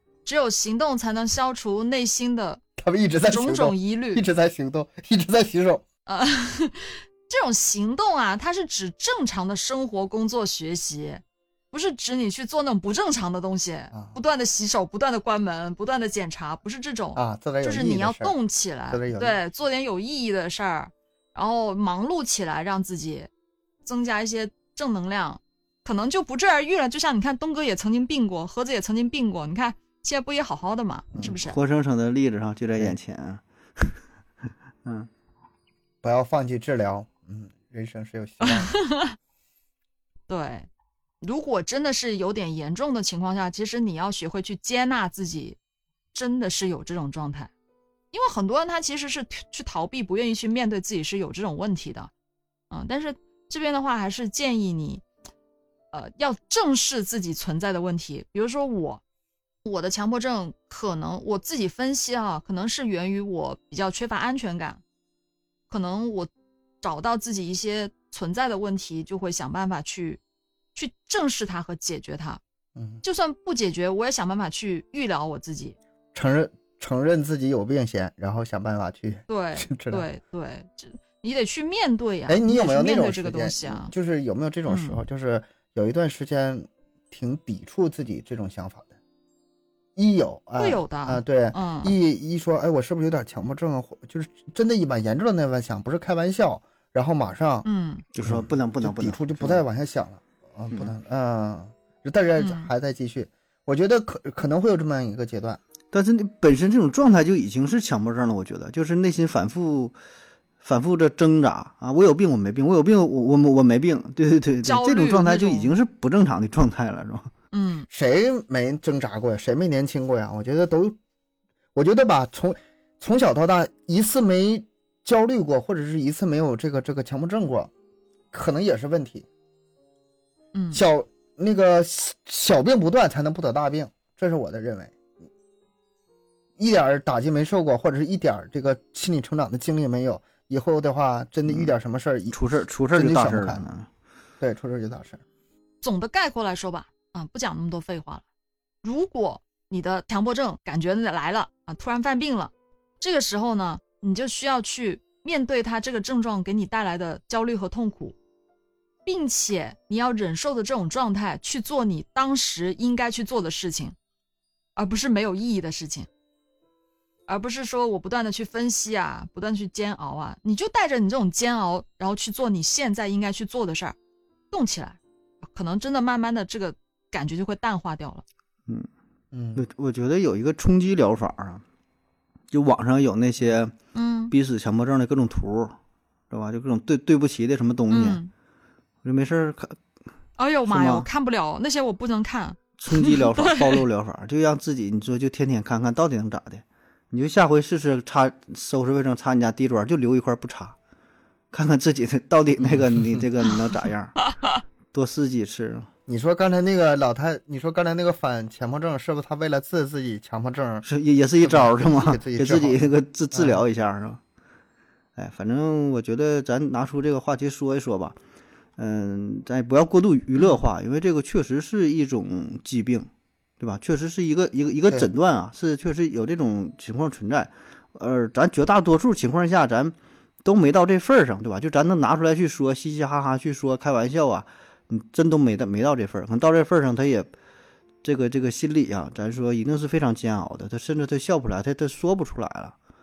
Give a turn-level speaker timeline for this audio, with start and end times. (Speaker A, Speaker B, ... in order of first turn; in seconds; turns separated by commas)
Speaker A: 0.2-2.6, Speaker B: 2.8-5.8, Speaker A: 3.3-4.2, Speaker A: 6.1-23.3, Speaker B: 13.9-14.2, Speaker B: 17.1-18.4, Speaker B: 18.9-19.4, Speaker A: 23.8-31.6, Speaker C: 31.3-34.0, Speaker B: 36.0-38.7, Speaker A: 38.4-39.2, Speaker A: 40.3-40.7, Speaker A: 41.2-45.6, Speaker A: 46.1-47.5, Speaker A: 48.1-52.1, Speaker A: 52.7-55.0, Speaker A: 55.9-59.0, Speaker A: 59.6-64.8, Speaker A: 65.7-66.3, Speaker A: 66.8-70.2, Speaker A: 70.8-72.4, Speaker B: 72.8-73.0, Speaker A: 73.0-75.8, Speaker B: 76.1-80.1, Speaker A: 79.3-83.9, Speaker B: 82.3-88.9, Speaker A: 84.7-85.0, Speaker B: 90.0-97.7, Speaker A: 90.6-92.0, Speaker A: 97.7-98.0, Speaker C: 98.1-99.6, Speaker B: 98.2-105.6, Speaker A: 102.4-102.7, Speaker C: 105.9-110.0, Speaker C: 110.6-117.3, Speaker A: 114.6-115.8, Speaker A: 117.5-117.9, Speaker B: 117.9-121.0, Speaker B: 121.8-127.7, Speaker B: 128.3-129.3, Speaker A: 130.5-130.8, Speaker B: 130.7-135.0, Speaker B: 136.6-143.6, Speaker C: 141.4-141.7, Speaker C: 142.3-143.9, Speaker B: 144.4-145.2, Speaker A: 145.8-148.2, Speaker A: 148.8-158.2, Speaker A: 159.1-163.9, Speaker A: 164.8-166.1, Speaker A: 167.3-174.0, Speaker A: 174.5-175.0, Speaker A: 175.5-178.2, Speaker B: 179.3-179.6, Speaker C: 179.6-181.6, Speaker C: 182.5-183.7, Speaker A: 183.9-184.3, Speaker C: 184.3-185.8, Speaker C: 186.3-188.2, Speaker A: 187.9-188.3, Speaker C: 189.0-189.8, Speaker A: 190.4-193.8, Speaker C: 190.7-191.1, Speaker C: 192.8-200.8, Speaker C: 201.5-204.2, Speaker C: 204.9-205.9, Speaker B: 206.1-210.8, Speaker C: 210.8-214.2, Speaker B: 211.4-213.7, Speaker C: 215.2-218.2, Speaker C: 218.8-223.1, Speaker C: 223.6-237.3, Speaker C: 238.0-242.8